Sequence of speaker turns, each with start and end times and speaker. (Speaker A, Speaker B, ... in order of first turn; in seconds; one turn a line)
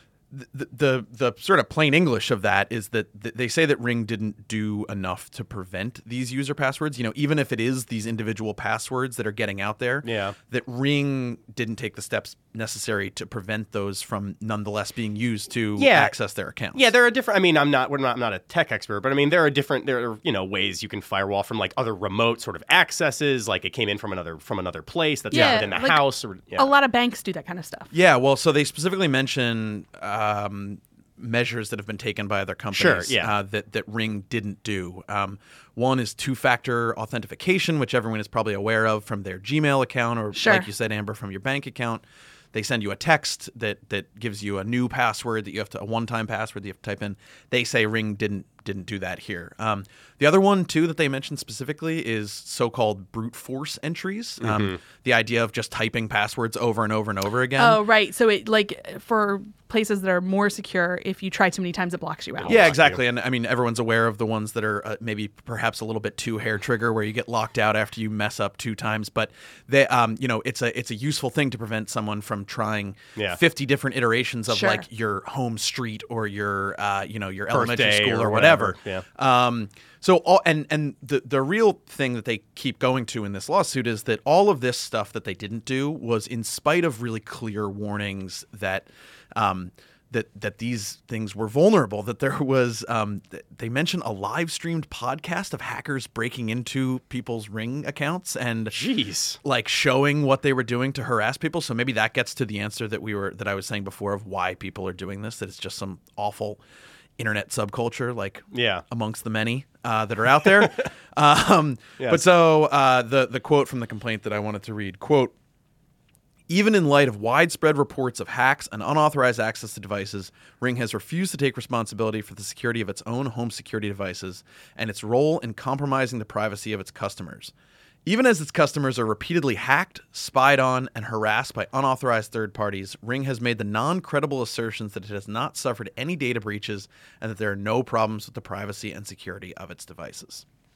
Speaker A: 0.3-16.9
Speaker B: 10.0-10.4
Speaker B: 15.8-16.1
Speaker B: 16.7-26.7
Speaker C: 25.3-27.9
Speaker A: 25.3-25.7
Speaker A: 27.9-57.8
Speaker B: 32.7-33.3
Speaker C: 40.3-40.7
Speaker B: 54.4-54.8
Speaker C: 57.6-62.6
Speaker B: 62.4-63.0
Speaker A: 62.5-98.8
Speaker C: 74.5-74.8
Speaker B: 77.5-79.0
Speaker B: 98.7-99.4
Speaker A: 99.4-106.6
Speaker A: 107.2-115.3
Speaker B: 108.5-108.8
Speaker A: 116.5-127.5
Speaker A: 128.1-140.4